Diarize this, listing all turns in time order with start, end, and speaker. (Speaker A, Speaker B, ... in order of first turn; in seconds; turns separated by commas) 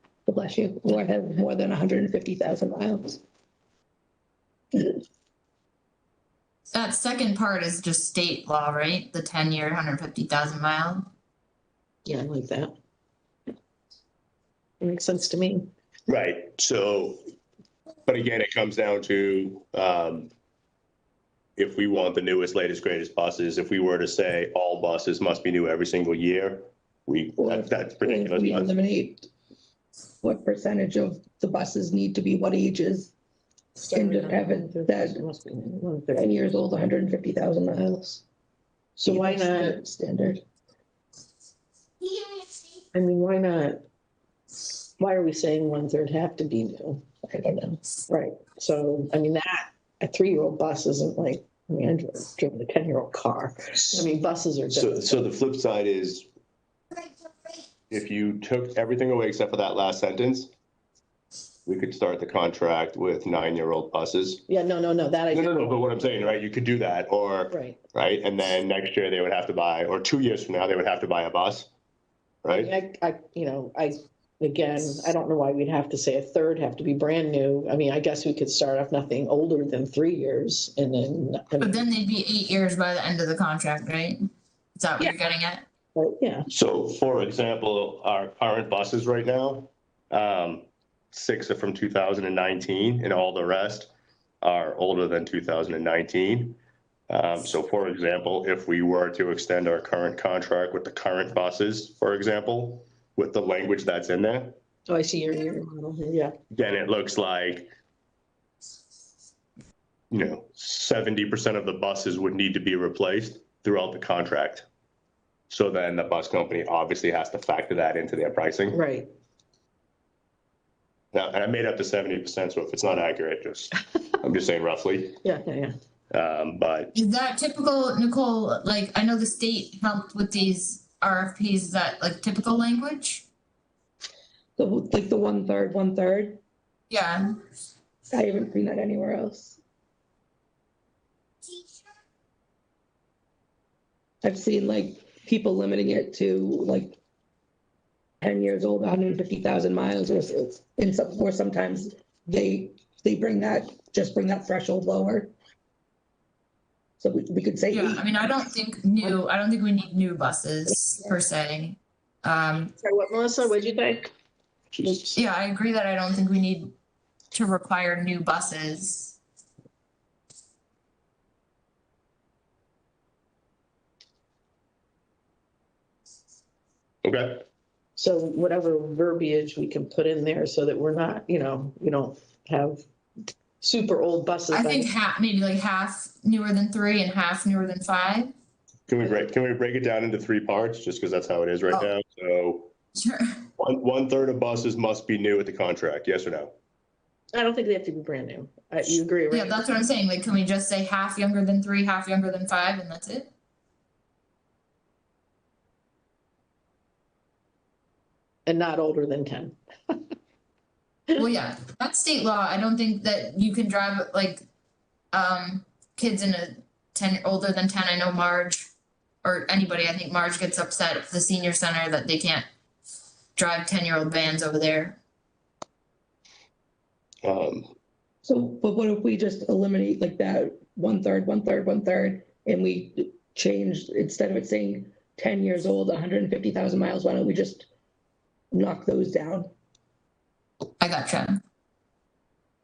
Speaker A: 0.2-3.2, Speaker B: 6.7-11.1, Speaker C: 12.1-12.7, Speaker C: 14.8-15.7, Speaker D: 16.1-17.2, Speaker D: 18.1-20.3, Speaker D: 21.6-28.7, Speaker A: 27.4-29.3, Speaker A: 30.2-33.1, Speaker C: 33.8-36.5, Speaker A: 33.9-35.2, Speaker A: 36.1-38.2, Speaker C: 39.0-39.8, Speaker A: 39.0-40.4, Speaker C: 42.9-43.8, Speaker C: 45.0-47.0, Speaker A: 47.2-47.8, Speaker C: 48.1-55.1, Speaker D: 54.7-56.3, Speaker D: 57.9-60.5, Speaker D: 61.6-64.4, Speaker C: 64.5-65.8, Speaker D: 65.3-71.7, Speaker C: 67.5-67.8, Speaker D: 72.4-72.7, Speaker C: 72.5-81.8, Speaker B: 81.6-84.2, Speaker B: 84.8-85.6, Speaker C: 85.9-86.5, Speaker D: 86.5-93.9, Speaker D: 94.4-104.6, Speaker C: 104.9-106.3, Speaker D: 106.5-107.7, Speaker D: 110.1-114.7, Speaker D: 115.5-118.8, Speaker C: 118.7-119.1, Speaker D: 121.1-125.2, Speaker C: 125.2-125.7, Speaker D: 126.1-126.9, Speaker B: 126.9-133.2, Speaker A: 134.6-136.4, Speaker B: 136.9-137.2, Speaker A: 138.1-139.6, Speaker A: 144.2-147.0, Speaker A: 148.2-155.3, Speaker A: 157.0-158.1, Speaker B: 157.7-162.7, Speaker C: 162.8-164.1, Speaker D: 164.7-165.2, Speaker B: 165.1-166.7, Speaker B: 167.3-169.2, Speaker D: 177.0-177.4, Speaker C: 178.0-182.8, Speaker C: 183.6-184.9, Speaker B: 184.5-188.3, Speaker D: 188.9-192.7, Speaker B: 192.9-193.3, Speaker D: 193.6-196.5, Speaker C: 197.3-199.8, Speaker B: 199.3-203.3, Speaker C: 208.4-210.1, Speaker B: 211.1-214.4, Speaker B: 215.1-218.7, Speaker B: 219.2-222.4, Speaker B: 223.3-225.0, Speaker D: 227.2-227.7, Speaker A: 228.2-237.7, Speaker A: 238.5-239.5, Speaker B: 240.8-241.4